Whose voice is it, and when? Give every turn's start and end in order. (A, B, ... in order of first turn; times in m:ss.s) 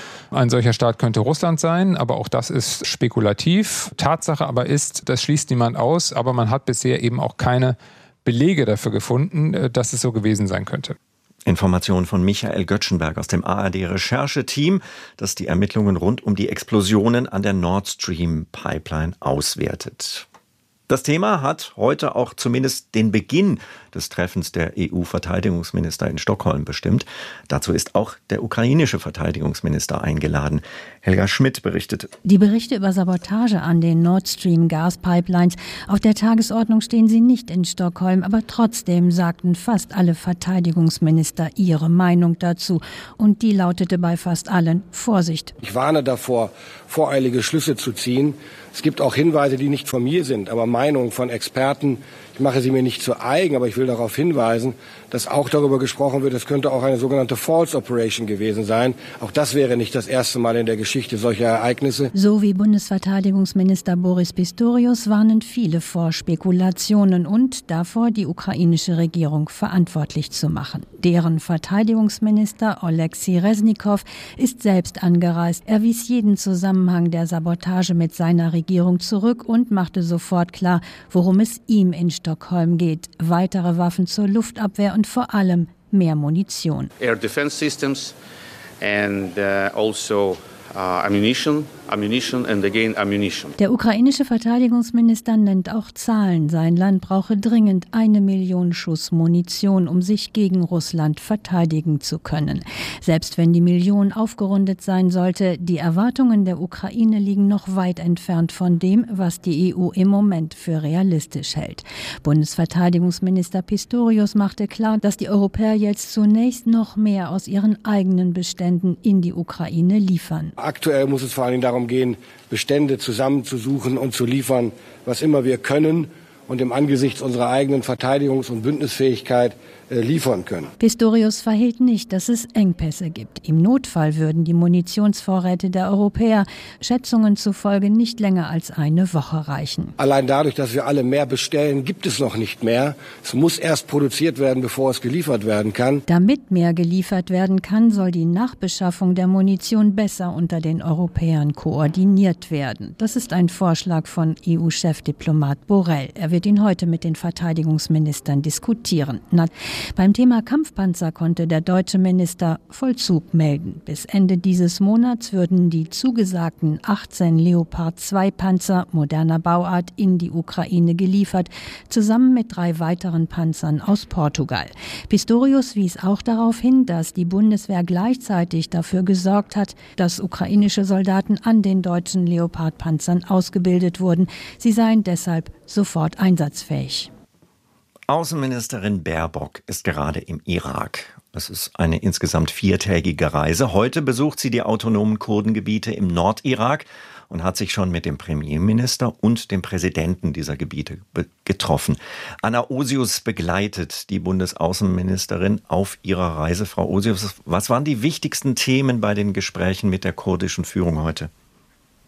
0:00.3-0:11.0 A
0:11.5-0:20.3 B
0:20.9-0:32.1 B
0:32.2-0:45.5 C
0:45.6-1:02.1 D
1:02.1-1:26.9 C
1:27.0-1:28.2 E
1:28.8-1:33.6 E
1:33.6-2:00.6 C
2:00.6-2:10.7 D
2:10.8-2:19.9 C
2:20.0-2:26.0 D
2:26.1-3:07.1 C
3:08.1-3:31.3 B